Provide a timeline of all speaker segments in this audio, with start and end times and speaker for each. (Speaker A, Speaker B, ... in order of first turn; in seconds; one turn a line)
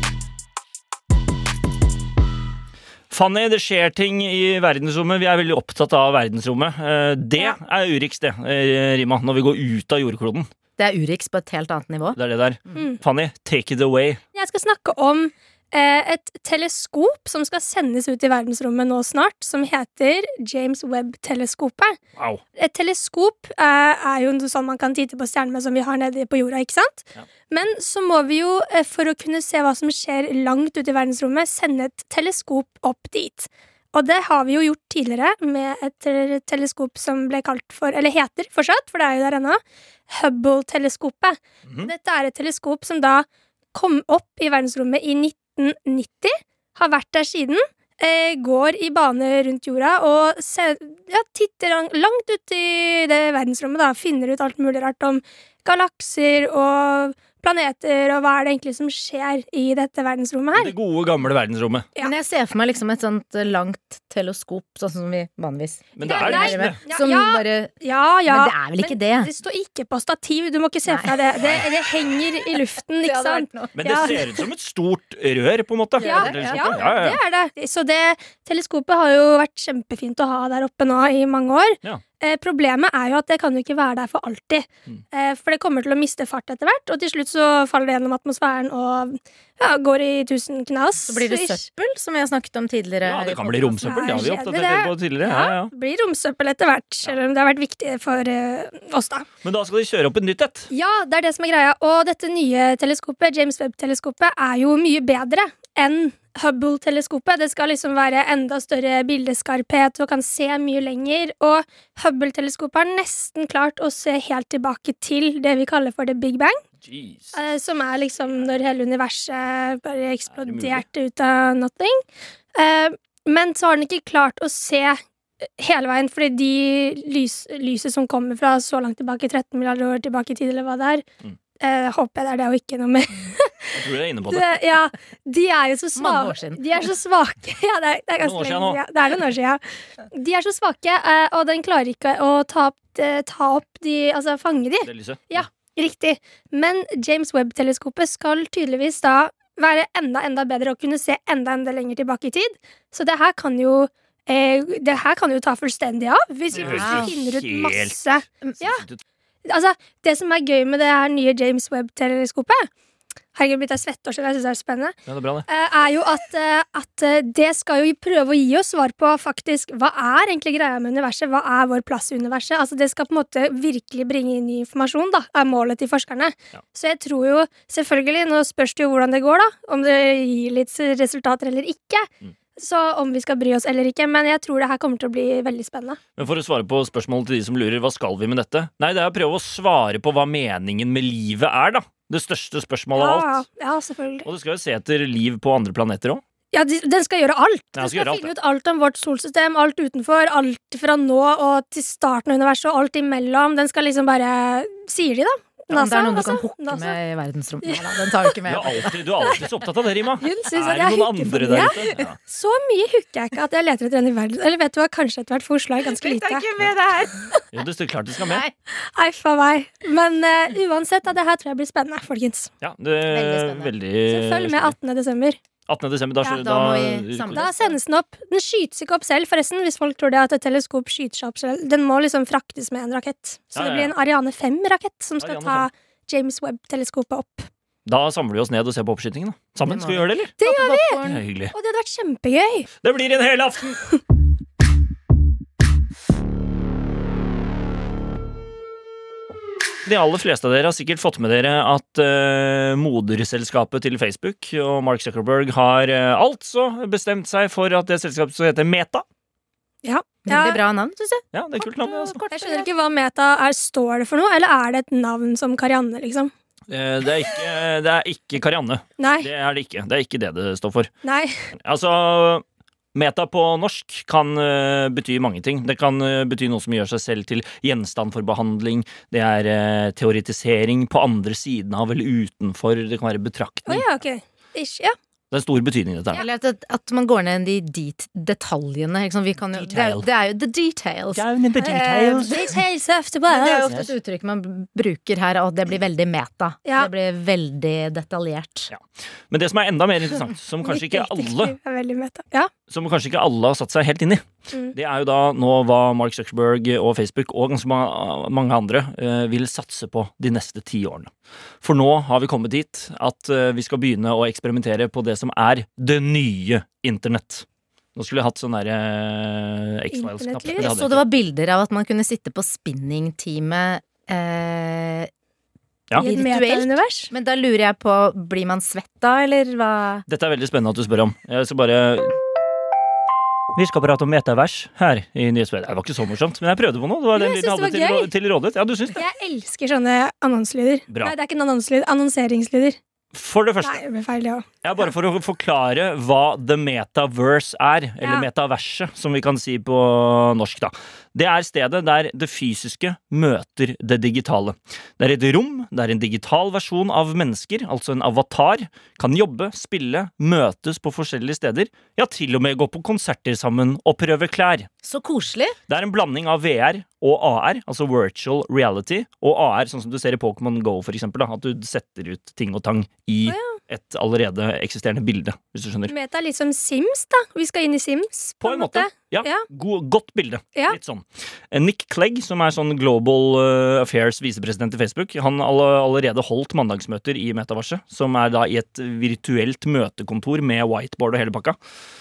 Speaker A: 3.1-10.5
Speaker B: 10.8-12.2
Speaker A: 12.1-14.2
Speaker C: 14.3-22.0
Speaker A: 22.1-22.4
Speaker C: 22.6-60.7
Speaker A: 60.5-61.9
Speaker B: 62.0-67.7
Speaker A: 66.0-66.8
Speaker C: 66.0-74.2
Speaker B: 68.3-69.3
Speaker B: 70.9-71.3
Speaker B: 73.0-73.8
Speaker A: 73.8-77.2
Speaker B: 76.0-76.9
Speaker C: 76.0-91.6
Speaker B: 91.1-94.3
Speaker A: 93.0-95.7
Speaker C: 93.8-99.2
Speaker A: 99.4-100.7
Speaker C: 100.7-116.6
Speaker A: 116.8-117.4
Speaker C: 117.3-131.0
Speaker A: 120.4-120.8
Speaker C: 131.6-133.8
Speaker A: 133.7-134.6
Speaker C: 134.3-158.8
Speaker B: 135.9-136.6
Speaker A: 138.2-138.8
Speaker A: 144.8-145.4
Speaker A: 156.5-158.0
Speaker B: 156.6-157.1
Speaker A: 158.6-159.0
Speaker C: 159.4-162.7
Speaker C: 163.3-164.9
Speaker A: 165.1-165.5
Speaker C: 165.5-186.0
Speaker A: 186.2-193.4
Speaker C: 192.9-194.3
Speaker A: 194.2-196.2
Speaker C: 196.5-207.0
Speaker A: 197.7-198.3
Speaker B: 205.7-209.0
Speaker A: 208.4-212.2
Speaker C: 210.2-216.4
Speaker B: 215.8-217.2
Speaker A: 217.5-218.4
Speaker B: 218.2-218.5
Speaker C: 218.8-222.5
Speaker A: 222.6-224.7
Speaker B: 223.1-223.7
Speaker C: 224.1-225.4
Speaker A: 225.7-227.5
Speaker B: 226.3-227.7
Speaker C: 227.3-237.5
Speaker A: 233.5-233.9
Speaker A: 235.2-235.7
Speaker A: 237.8-240.3
Speaker B: 239.6-241.2
Speaker C: 240.4-241.0
Speaker A: 241.0-241.5
Speaker C: 241.5-242.7
Speaker A: 242.8-243.9
Speaker A: 249.8-259.0
Speaker C: 259.8-260.6
Speaker B: 260.2-262.7
Speaker A: 261.3-262.2
Speaker C: 262.3-266.3
Speaker A: 266.7-270.9
Speaker C: 269.0-269.3
Speaker C: 271.0-271.5
Speaker A: 271.6-272.4
Speaker A: 272.9-283.9
Speaker C: 283.6-284.9
Speaker A: 285.3-286.2
Speaker B: 286.1-291.2
Speaker A: 289.5-290.1
Speaker A: 291.1-292.5
Speaker C: 291.6-293.7
Speaker B: 293.3-298.7
Speaker A: 293.7-293.9
Speaker C: 296.6-296.9
Speaker A: 298.7-301.6
Speaker C: 300.6-302.5
Speaker A: 302.7-304.2
Speaker A: 304.7-311.1
Speaker A: 311.6-317.4
Speaker A: 317.9-321.0
Speaker C: 319.9-320.7
Speaker B: 320.6-325.1
Speaker C: 325.9-327.1
Speaker B: 325.9-330.0
Speaker A: 330.1-332.1
Speaker A: 333.5-339.0
Speaker C: 337.1-338.1
Speaker C: 338.9-342.8
Speaker A: 340.9-341.1
Speaker A: 343.1-343.8
Speaker C: 343.6-344.5
Speaker A: 344.6-364.7
Speaker C: 348.0-348.2
Speaker B: 364.8-365.6
Speaker A: 365.7-375.9
Speaker C: 373.2-373.6
Speaker C: 375.9-379.4
Speaker A: 378.4-391.6